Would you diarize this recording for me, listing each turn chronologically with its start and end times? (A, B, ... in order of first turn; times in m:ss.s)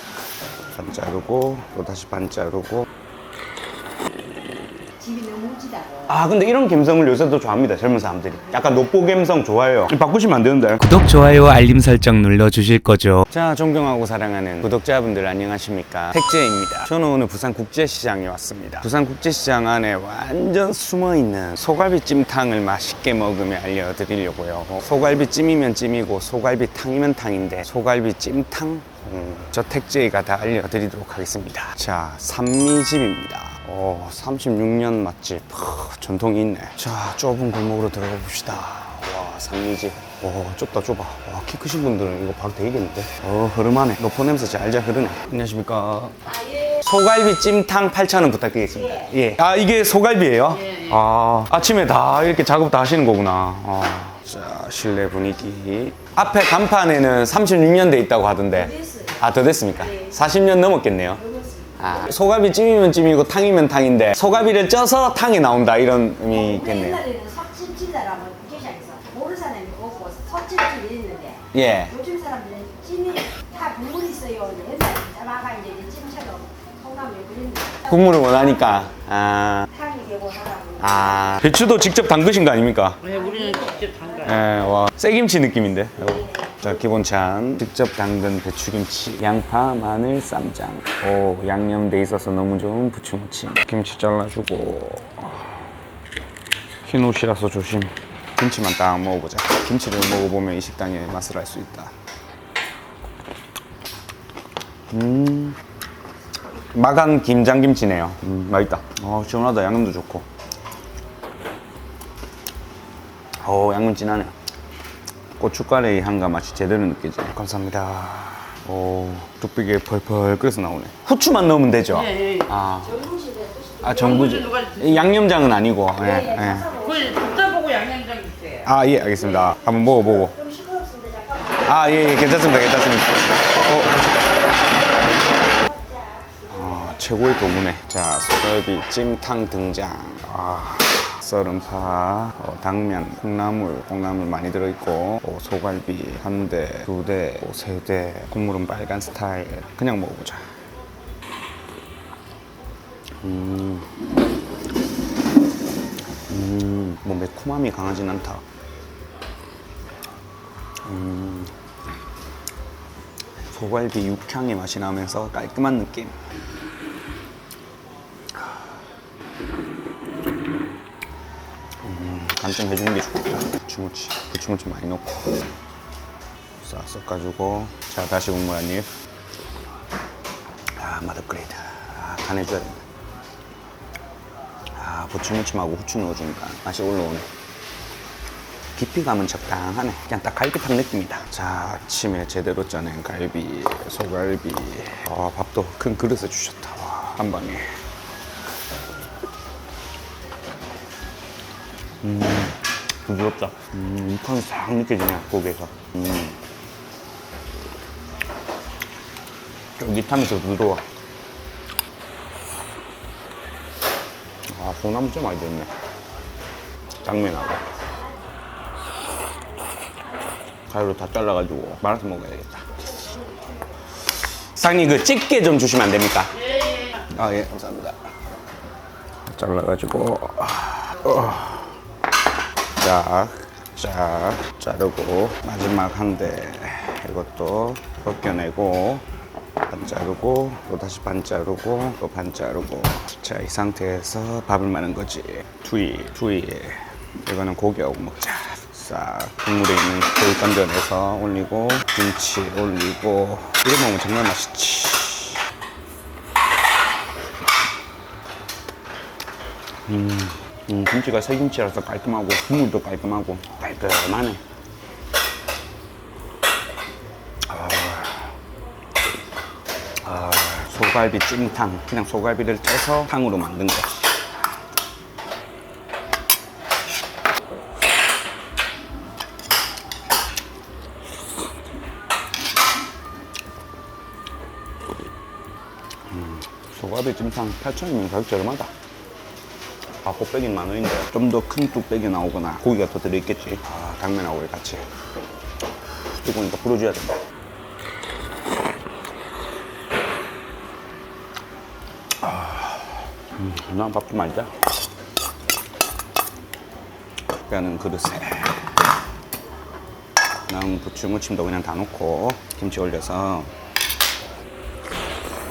0:00.7-0:02.8 A
0:05.0-0:06.1 B
0:06.1-0:11.0 A
0:10.8-0:13.2 C
0:13.2-1:01.2 A
0:58.6-0:59.2 B
1:01.2-1:01.8 B
1:01.8-1:07.1 A
1:06.3-1:17.9 B
1:11.5-1:12.0 A
1:17.9-1:19.7 A
1:19.7-1:20.8 B
1:20.8-1:23.1 A
1:23.1-1:24.2 D
1:23.1-1:24.1 B
1:24.2-1:35.5 A
1:36.8-1:41.9 A
1:44.9-1:45.6 A
1:46.7-1:50.2 A
1:53.4-1:54.3 A
1:55.4-2:03.1 A
2:03.0-2:04.3 B
2:03.8-2:06.8 A
2:06.1-2:07.6 B
2:06.8-2:08.6 D
2:08.6-2:10.4 A
2:10.3-2:11.6 B
2:11.6-2:14.2 A
2:16.5-2:30.5 A
2:33.2-2:33.9 A
2:36.3-2:38.4 A
2:40.8-2:41.5 A
2:43.5-2:46.1 A
2:51.8-2:55.5 A
2:56.6-2:58.9 A
3:00.8-3:02.8 A
3:04.7-3:07.3 A
3:08.7-3:17.7 A
3:22.0-3:26.4 A
3:29.8-3:30.8 A
3:34.5-3:35.7 A
3:37.0-3:37.6 A
3:40.7-3:42.7 A
3:44.4-3:46.4 A
3:47.0-3:48.0 A
3:49.2-3:51.6 A
3:52.8-3:59.0 A
3:59.7-4:15.4 A
4:19.9-4:24.4 A
4:27.5-4:28.3 A
4:30.0-4:34.1 A
4:46.1-4:48.7 A
4:50.0-4:54.8 A
4:56.1-4:57.2 A
5:02.2-5:02.6 A
5:03.3-5:04.6 A
5:07.5-5:08.6 A
5:10.5-5:13.5 A